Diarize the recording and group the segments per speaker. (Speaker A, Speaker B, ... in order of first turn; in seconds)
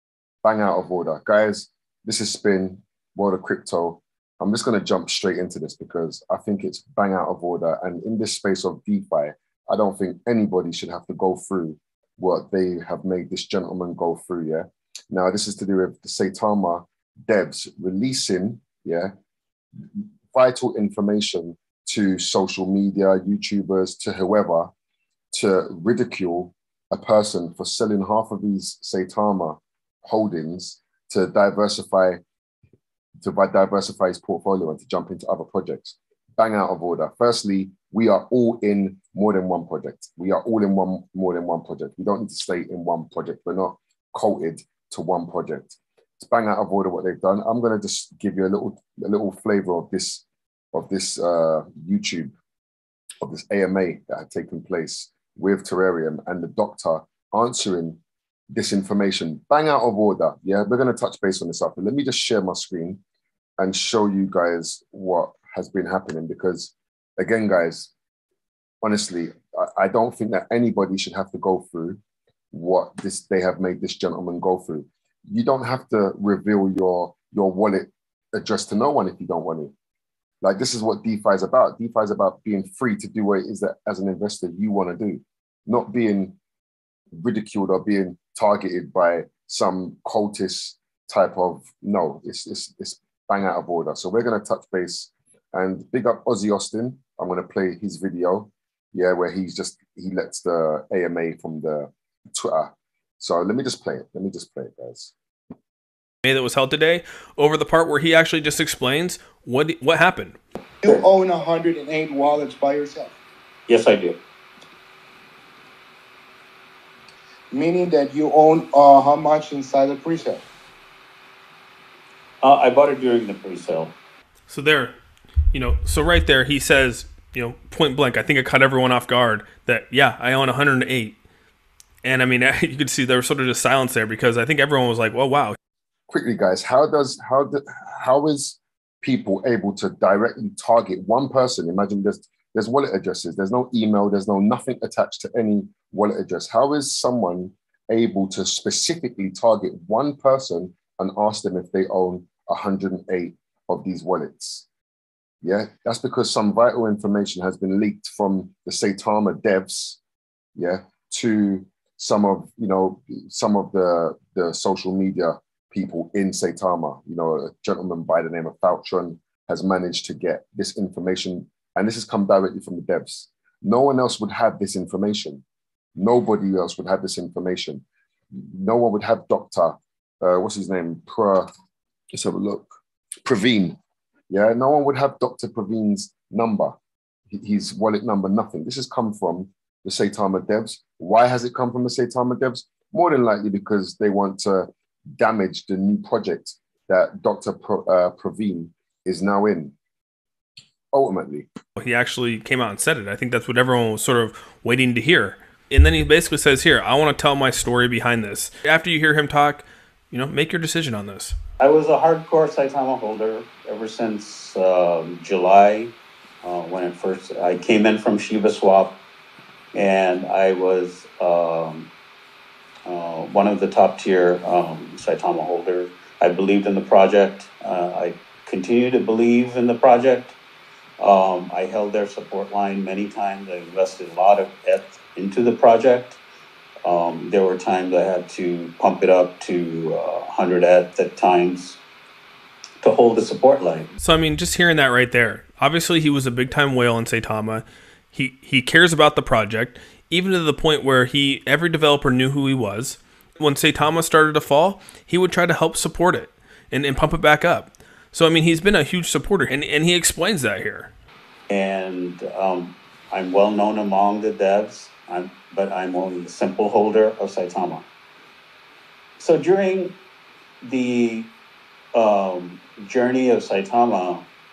Speaker A: 0.4-19.1, 19.9-24.7, 25.3-32.2, 33.2-52.3, 53.2-58.0, 58.5-63.0, 63.6-67.9, 68.8-72.0, 72.5-79.7, 80.4-86.4, 87.2-105.1, 136.1-154.7, 155.4-160.0, 160.6-175.4, 176.0-181.5, 182.1-182.7, 183.2-183.8, 184.3-186.7, 187.3-199.7, 200.9-201.5
Speaker B: 106.2-110.4, 124.5-125.0, 125.5-131.2, 132.0-135.6, 201.8-211.4, 244.0-260.9
Speaker C: 110.8-113.2, 117.5-120.4
Speaker D: 113.7-114.2, 122.4-124.0, 211.6-218.9, 219.7-221.9, 222.9-230.4, 231.0-236.2, 236.8-241.8, 242.8-243.9, 261.5-267.9, 269.2-269.9, 270.6-271.3, 271.9-274.3